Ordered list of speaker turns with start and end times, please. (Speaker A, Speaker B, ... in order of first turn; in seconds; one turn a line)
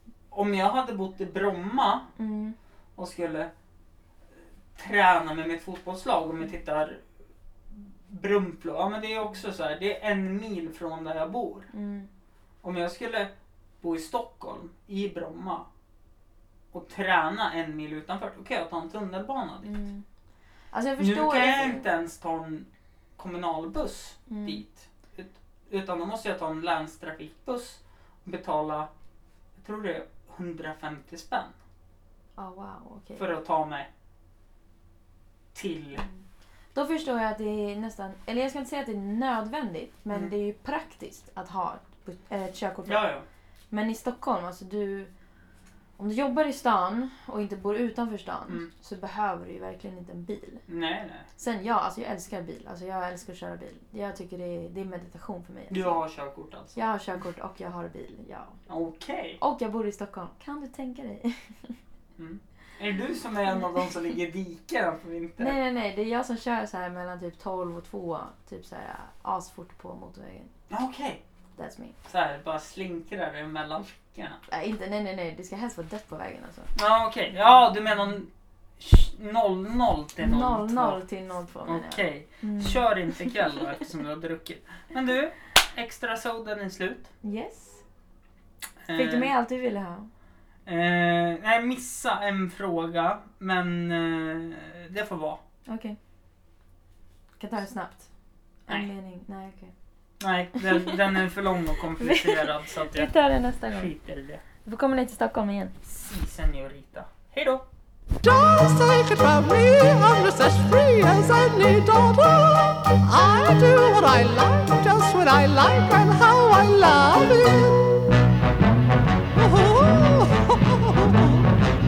Speaker A: 0.3-2.1
Speaker B: 2.2-2.6
Speaker A: 3.0-3.5
Speaker A: 4.8-7.0
Speaker A: 7.7-11.7
Speaker B: 11.7-12.1
Speaker A: 12.6-15.7
Speaker A: 16.7-19.9
Speaker B: 19.6-20.0
Speaker B: 20.7-21.9
Speaker A: 21.0-28.9
Speaker B: 24.3-24.6
Speaker A: 29.6-31.6
Speaker B: 32.4-33.2
Speaker A: 33.2-33.9
Speaker A: 35.5-36.0
Speaker B: 36.0-43.0
Speaker A: 42.9-43.2
Speaker B: 43.7-45.1
Speaker B: 46.0-50.6
Speaker A: 50.7-51.3
Speaker B: 51.4-56.0
Speaker A: 55.7-56.8
Speaker B: 56.7-58.6
Speaker A: 58.7-59.4
Speaker B: 59.4-61.8
Speaker A: 62.2-65.6
Speaker B: 65.4-70.5
Speaker A: 70.7-71.2
Speaker B: 71.6-72.0
Speaker A: 72.1-74.4
Speaker B: 74.5-76.7
Speaker A: 76.8-81.0
Speaker B: 80.2-83.6
Speaker A: 81.7-87.1
Speaker B: 87.2-87.8
Speaker A: 88.8-89.3
Speaker B: 88.9-90.1
Speaker A: 90.7-95.4
Speaker B: 95.7-96.0
Speaker B: 97.4-98.1
Speaker B: 98.7-99.7
Speaker A: 100.2-103.1
Speaker B: 100.6-101.2
Speaker B: 101.9-103.9
Speaker A: 103.7-104.4
Speaker B: 104.6-105.8
Speaker A: 105.8-107.7
Speaker C: 108.2-117.8
Speaker C: 119.3-121.4